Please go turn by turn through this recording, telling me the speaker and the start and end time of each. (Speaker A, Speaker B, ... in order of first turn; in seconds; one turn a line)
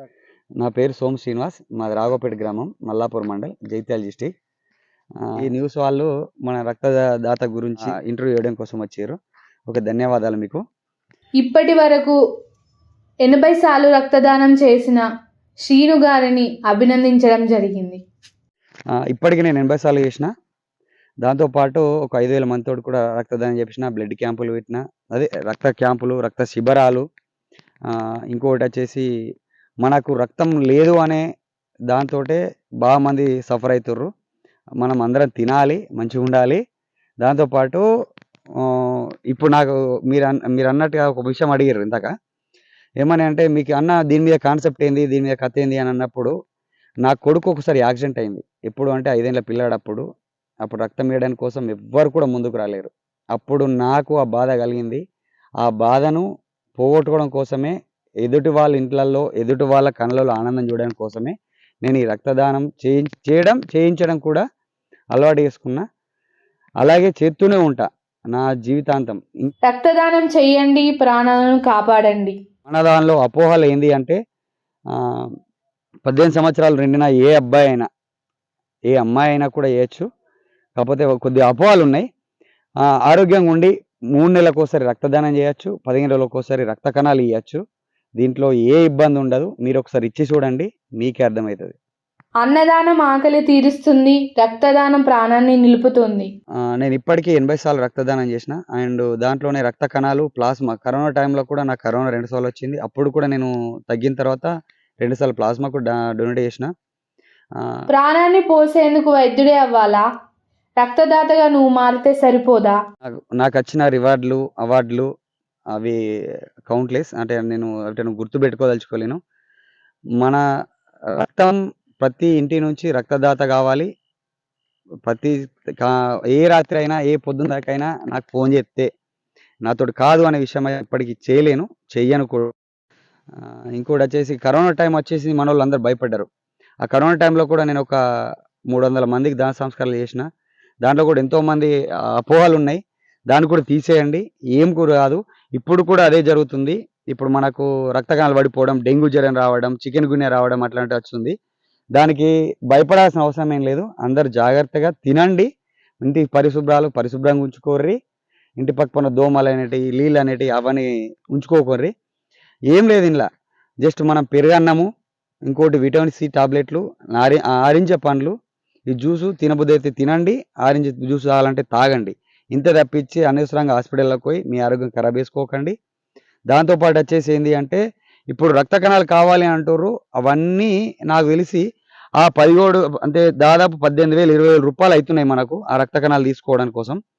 Speaker A: 0.6-4.3
Speaker A: 5.4-9.2
Speaker A: 9.7-10.6
Speaker B: 11.4-12.2
Speaker B: 13.2-15.1
Speaker B: 15.7-18.0
Speaker A: 19.1-20.3
Speaker A: 21.2-27.1
Speaker A: 27.9-29.1
Speaker A: 29.8-31.2
Speaker A: 31.9-34.1
Speaker A: 34.8-36.6
Speaker A: 37.2-37.9
Speaker A: 38.6-42.1
Speaker A: 43.0-46.3
Speaker A: 47.0-50.0
Speaker A: 50.6-55.0
Speaker A: 55.6-56.2
Speaker A: 56.8-61.3
Speaker A: 61.8-64.4
Speaker A: 65.1-65.8
Speaker A: 66.8-69.5
Speaker B: 69.7-72.3
Speaker A: 72.7-74.2
Speaker A: 74.9-75.3
Speaker A: 76.1-77.9
Speaker A: 78.9-80.1
Speaker A: 80.8-82.1
Speaker A: 83.0-87.6
Speaker A: 88.2-91.7
Speaker B: 92.4-96.3
Speaker A: 96.8-104.5
Speaker A: 105.0-106.7
Speaker B: 107.9-110.0
Speaker B: 110.8-112.8
Speaker A: 113.1-115.1
Speaker A: 116.7-119.2
Speaker A: 121.2-123.9
Speaker A: 125.1-128.9
Speaker A: 129.7-132.5
Speaker A: 133.4-136.3
Speaker A: 136.8-138.0
Speaker A: 138.7-140.3
Speaker A: 140.8-151.3
Speaker A: 151.9-155.5
Speaker A: 156.0-157.9
Speaker A: 158.6-161.9
Speaker A: 162.7-163.3
Speaker A: 163.8-164.9
Speaker A: 165.5-168.3
Speaker A: 168.9-175.7
Speaker A: 176.5-177.8
Speaker A: 178.3-181.6
Speaker A: 182.2-187.0